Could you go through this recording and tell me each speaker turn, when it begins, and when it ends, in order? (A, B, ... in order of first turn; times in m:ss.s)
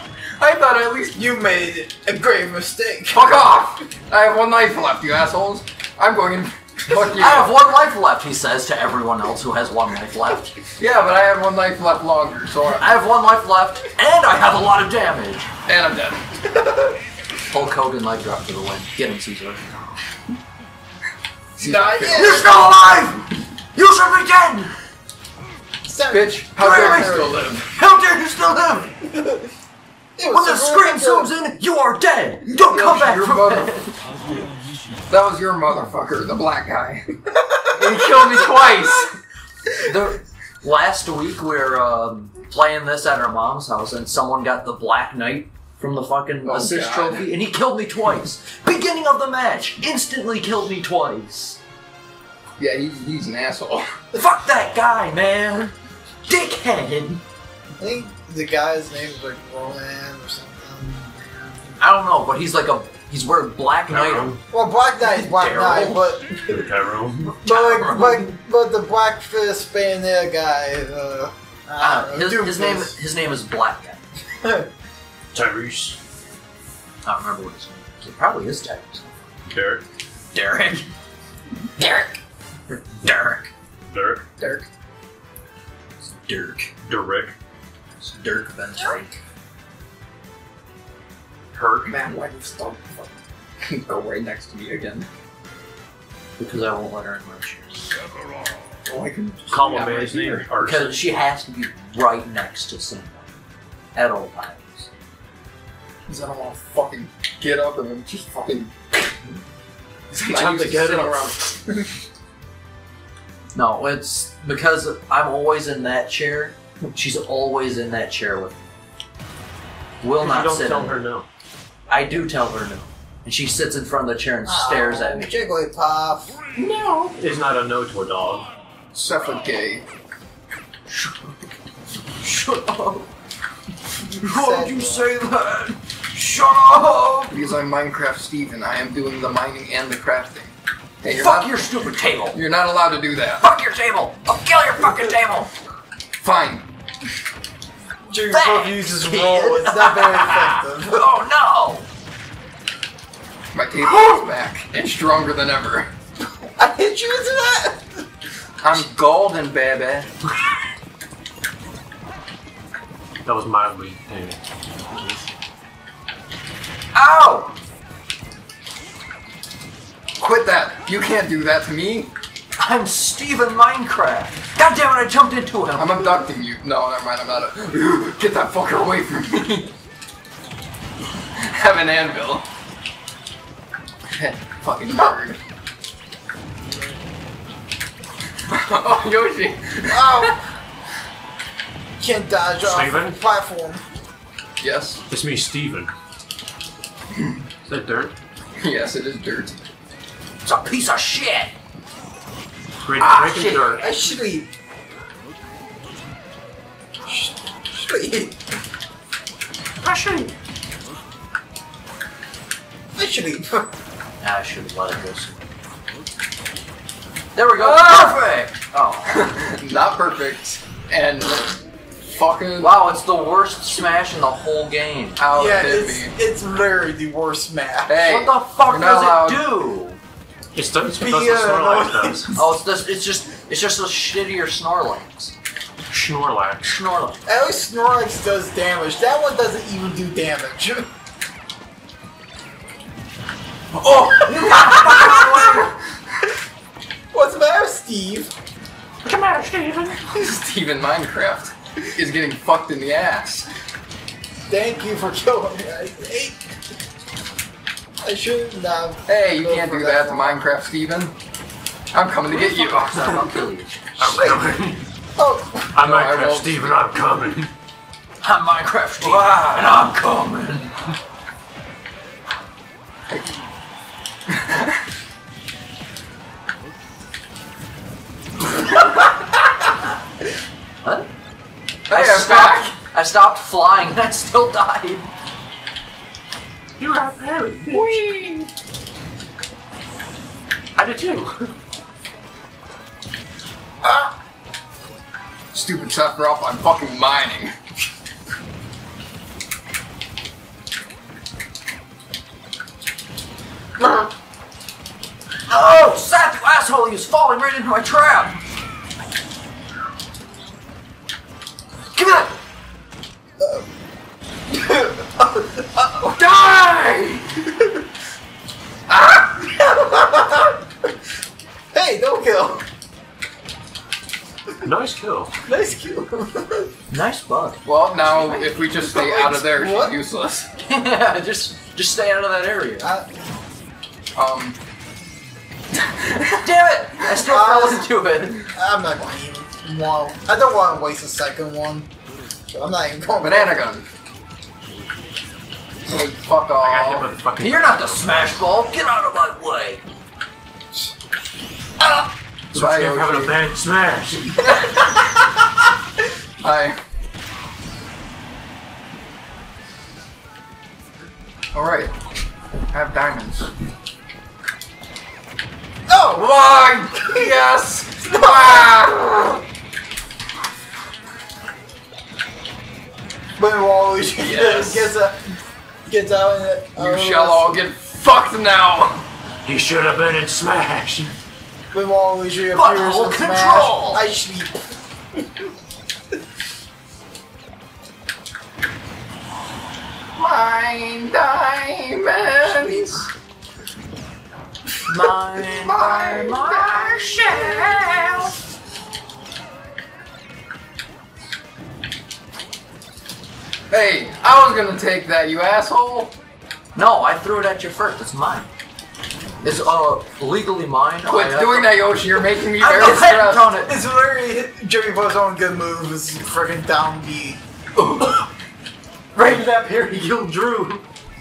0:00.4-0:01.2 A
0:01.2-0:03.4 B
0:03.1-0:07.5 A
0:06.9-0:10.5 C
0:10.8-0:12.9 A
0:12.6-0:15.5 C
0:15.6-0:16.2 A
0:16.5-0:17.0 B
0:17.5-0:19.6 C
0:21.6-0:22.5 A
0:21.6-0:22.6 B
0:22.1-0:24.7 C
0:25.8-0:27.4 B
0:26.1-0:27.7 A
0:26.6-0:28.9 C
0:29.0-0:29.5 B
0:30.2-0:31.3 B
0:30.3-0:34.0 C
0:32.6-0:33.7 A
0:35.1-0:39.1 A
0:39.8-0:51.6 C
0:46.4-0:47.3 A
0:52.6-0:53.9 A
0:54.1-0:57.2 C
0:57.8-1:01.7 B
1:01.8-1:04.4 C
1:03.9-1:04.4 D
1:04.5-1:06.6 B
1:05.0-1:06.0 C
1:06.4-1:07.4 D
1:07.4-1:08.3 C
1:07.4-1:12.9 B
1:11.8-1:14.0 C
1:14.4-1:14.7 B
1:15.3-1:16.0 D
1:17.0-1:19.3 C
1:19.4-1:19.8 D
1:20.3-1:20.9 C
1:21.8-1:22.1 C
1:22.7-1:23.5 C
1:23.9-1:24.2 D
1:24.4-1:24.7 A
1:26.0-1:26.7 C
1:26.8-1:27.3 D
1:28.0-1:29.2 C
1:31.8-1:35.1 A
1:36.4-1:37.9 C
1:38.8-1:40.4 A
1:39.5-1:41.0 D
1:40.6-1:43.3 C
1:43.9-1:44.9 C
1:46.1-1:48.7 A
1:50.1-1:51.9 A
1:50.1-1:51.3 D
1:53.5-1:58.7 C
2:00.0-2:01.0 C
2:00.2-2:01.3 D
2:01.9-2:05.3 C
2:04.4-2:06.4 B
2:06.6-2:08.5 D
2:08.9-2:09.9 A
2:10.9-2:11.4 C
2:12.2-2:13.1 C
2:14.1-2:17.4 C
2:14.2-2:15.1 B
2:17.3-2:21.7 A
2:21.1-2:22.4 C
2:22.3-2:23.4 A
2:23.4-2:25.5 C
2:26.2-2:26.6 A
2:28.1-2:31.0 B
2:28.3-2:31.9 C
2:33.5-2:35.9 A
2:36.6-2:38.0 B
2:38.6-2:40.1 A
2:43.2-2:44.4 D
2:46.9-2:47.5 C
2:50.2-2:52.1 A
2:52.6-2:56.1 C
2:55.8-2:59.7 A
3:01.4-3:02.4 A
3:04.1-3:05.4 A
3:08.5-3:10.4 A
3:09.8-3:10.4 B
3:12.0-3:13.8 B
3:12.6-3:13.2 D
3:14.6-3:15.0 A
3:15.1-3:15.9 D
3:17.6-3:18.1 D
3:18.6-3:19.6 A
3:20.4-3:21.5 C
3:22.8-3:24.0 D
3:23.0-3:23.8 C
3:23.8-3:24.5 B
3:27.0-3:28.4 B
3:29.8-3:30.3 D
3:32.9-3:33.7 B
3:34.2-3:35.4 C
3:37.3-3:39.3 C
3:37.6-3:38.2 A
3:39.1-3:42.8 A
3:42.6-3:45.2 C
3:45.2-3:46.1 A
3:45.3-3:48.1 B
3:47.9-3:49.5 A
3:48.0-3:50.0 C
3:50.5-3:52.3 D
3:50.8-3:52.4 B
3:52.4-3:55.3 C
3:55.9-3:56.7 D
3:56.6-3:57.2 C
3:57.2-4:00.9 B
4:03.7-4:05.8 A
4:04.2-4:05.6 B
4:04.5-4:05.6 C
4:07.1-4:08.3 B
4:09.0-4:10.0 D
4:10.0-4:13.5 A
4:14.5-4:16.5 B
4:18.0-4:20.5 B
4:19.1-4:21.1 A
4:21.9-4:23.4 A
4:22.3-4:24.0 C
4:24.0-4:24.8 D
4:24.0-4:24.5 B
4:25.2-4:25.8 B
4:25.7-4:27.5 D
4:25.8-4:26.8 A
4:28.2-4:30.8 C
4:29.0-4:29.9 A
4:34.3-4:34.8 A
4:40.8-4:41.1 C
4:41.9-4:42.7 A
4:41.9-4:45.1 C
4:46.8-4:48.0 D
4:47.7-4:48.5 A
4:50.8-4:51.5 D
4:53.8-4:54.1 B
4:55.5-4:57.5 A
5:05.5-5:08.4 C
5:11.9-5:12.3 C
5:13.4-5:13.7 B
5:14.5-5:16.2 B
5:16.1-5:17.3 A
5:17.4-5:17.8 B
5:18.9-5:19.5 A
5:19.5-5:20.6 B
5:21.7-5:22.6 B
5:24.6-5:25.3 D
5:25.4-5:26.7 B
5:26.9-5:27.6 C
5:27.6-5:30.5 A
5:28.6-5:30.0 B
5:30.6-5:32.9 C
5:32.8-5:33.2 B
5:34.1-5:34.6 A
5:35.8-5:36.5 A
5:36.4-5:38.5 C
5:37.2-5:37.9 B
5:38.4-5:41.9 B
5:42.5-5:43.7 B
5:43.2-5:43.8 A
5:45.8-5:47.1 A
5:46.6-5:48.4 D
5:47.4-5:49.8 C
5:52.5-5:54.5 D
5:52.5-5:53.4 A
5:54.5-5:54.8 A
5:56.4-5:56.8 A
6:01.5-6:01.9 A
6:02.7-6:03.5 A
6:05.9-6:06.4 B
6:06.2-6:09.4 A
6:06.9-6:07.3 B
6:08.0-6:08.8 B
6:13.4-6:17.6 B
6:14.2-6:14.9 A
6:16.8-6:19.0 A
6:19.4-6:21.1 D
6:21.7-6:24.6 B
6:22.5-6:24.0 C
6:30.2-6:33.1 A
6:34.9-6:38.3 C
6:35.6-6:38.3 A
6:43.7-6:46.2 A
6:46.7-6:48.5 C
6:49.4-6:52.0 C
6:51.0-6:53.6 A
6:52.5-6:53.7 C
6:53.5-6:57.4 B
6:57.8-6:58.2 A
6:59.1-7:00.8 D